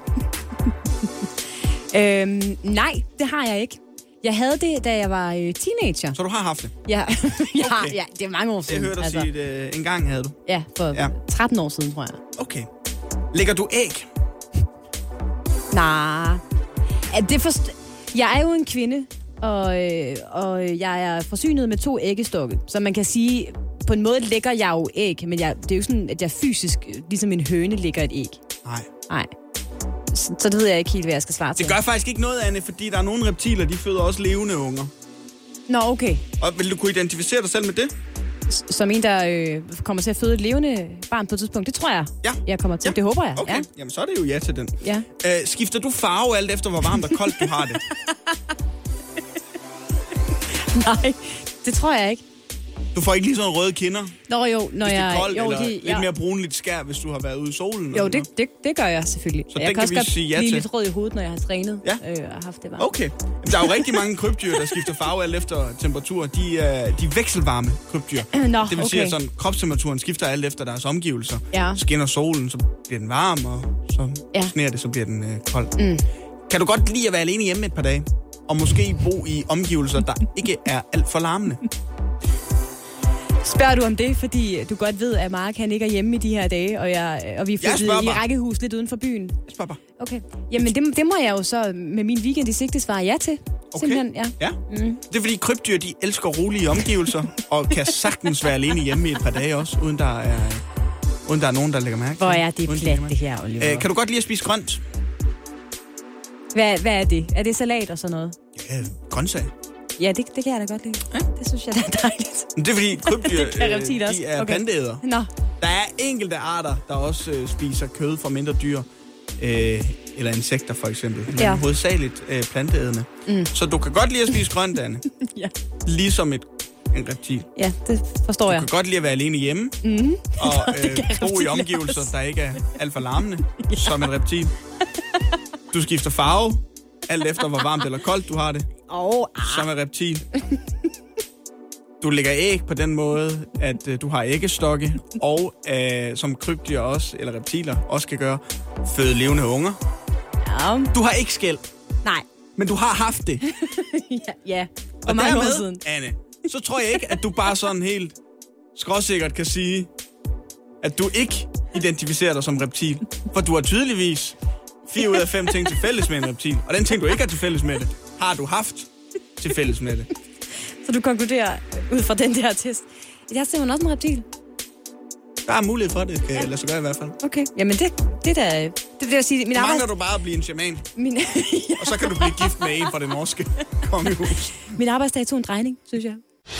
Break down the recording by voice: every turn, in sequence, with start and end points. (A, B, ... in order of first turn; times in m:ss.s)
0:01.9-0:06.2 A
0:06.2-0:06.7 B
0:06.9-0:09.3 A
0:07.6-0:08.0 B
0:08.7-0:10.4 B
0:10.5-0:12.2 A
0:12.4-0:12.7 B
0:13.3-0:14.1 B
0:15.7-0:16.4 A
0:17.1-0:28.4 A
0:30.1-0:31.8 A
0:31.6-0:34.9 B
0:35.7-0:36.2 A
0:36.4-0:37.9 B
0:38.5-0:43.7 A
0:42.2-0:47.8 B
0:44.8-0:45.1 A
0:47.0-0:48.4 A
0:50.5-0:52.2 A
0:52.9-0:54.2 B
0:54.3-0:56.1 A
0:54.8-0:58.3 B
0:57.9-1:02.9 A
0:59.5-1:00.7 B
1:02.8-1:15.7 B
1:03.5-1:03.9 A
1:08.3-1:09.2 A
1:11.5-1:11.8 A
1:15.8-1:16.0 A
1:16.5-1:21.7 B
1:23.4-1:29.4 A
1:27.6-1:28.2 B
1:29.5-1:29.8 B
1:30.0-1:35.0 A
1:33.7-1:34.6 B
1:35.1-1:40.6 B
1:41.3-1:44.8 B
1:42.2-1:43.9 A
1:46.6-1:48.4 A
1:48.6-1:49.5 B
1:50.0-1:52.5 A
1:52.6-1:55.0 B
1:53.0-1:55.3 A
1:55.6-1:58.9 B
1:59.4-2:05.1 B
2:01.3-2:01.6 A
2:05.2-2:05.5 A
2:05.9-2:07.5 B
2:07.6-2:08.7 A
2:08.5-2:09.8 B
2:09.8-2:12.1 A
2:10.4-2:14.5 B
2:13.6-2:14.1 A
2:15.7-2:18.7 B
2:18.9-2:19.7 A
2:19.4-2:20.3 B
2:22.0-2:29.8 B
2:30.4-2:30.9 A
2:30.9-2:31.6 B
2:32.6-2:33.4 B
2:33.4-2:35.8 A
2:35.1-2:38.2 B
2:38.8-2:39.9 B
2:40.8-2:44.4 B
2:44.9-2:50.1 B
2:50.8-2:54.3 A
2:55.4-2:57.2 B
2:57.2-2:59.9 A
2:59.6-3:00.9 B
3:01.0-3:02.9 A
3:01.8-3:04.7 B
3:04.7-3:06.2 A